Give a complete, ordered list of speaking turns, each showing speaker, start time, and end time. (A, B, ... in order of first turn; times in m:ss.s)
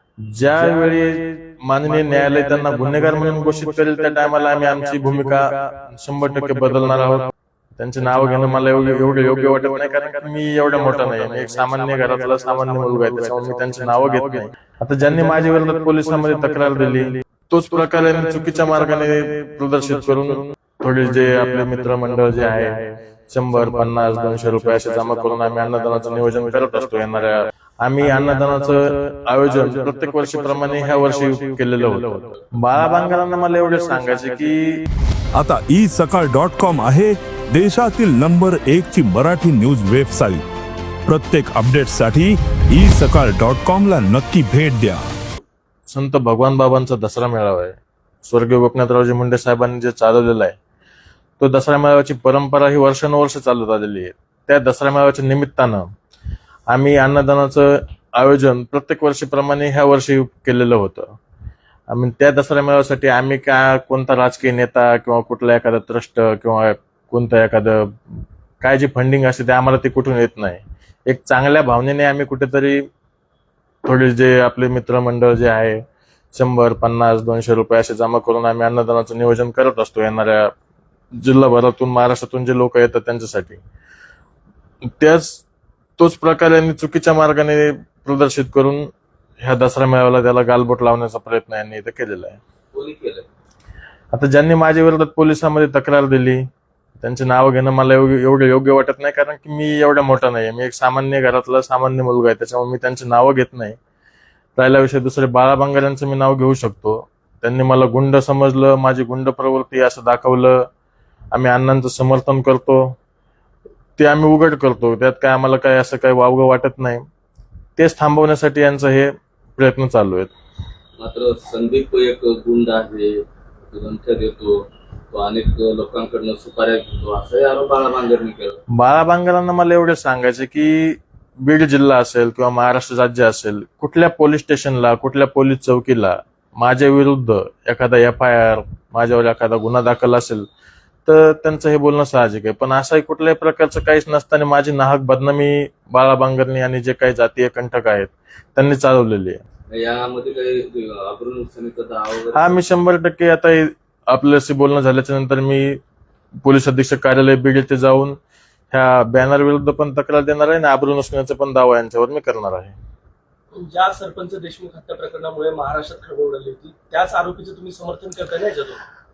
0:00.3-0:34.6 A
0:35.4-0:40.4 B
0:41.1-0:45.0 B
0:45.9-0:50.6 A
0:51.4-0:55.9 A
0:56.7-1:01.2 A
1:01.9-1:12.8 A
1:13.8-1:15.8 A
1:16.3-1:20.5 A
1:21.2-1:23.6 A
1:24.9-1:25.4 A
1:26.0-1:28.9 A
1:29.4-1:32.4 A
1:32.7-1:33.3 C
1:34.1-1:36.4 A
1:37.0-1:43.8 A
1:44.6-1:50.6 A
1:51.3-1:52.8 A
1:54.0-1:57.0 A
1:57.8-2:00.3 A
2:01.0-2:04.6 C
2:05.1-2:08.6 C
2:08.8-2:20.5 A
2:21.1-2:29.4 A
2:29.7-2:32.6 C
2:32.3-2:35.8 A
2:36.4-2:38.2 A
2:38.7-2:42.8 A
2:43.6-2:48.8 D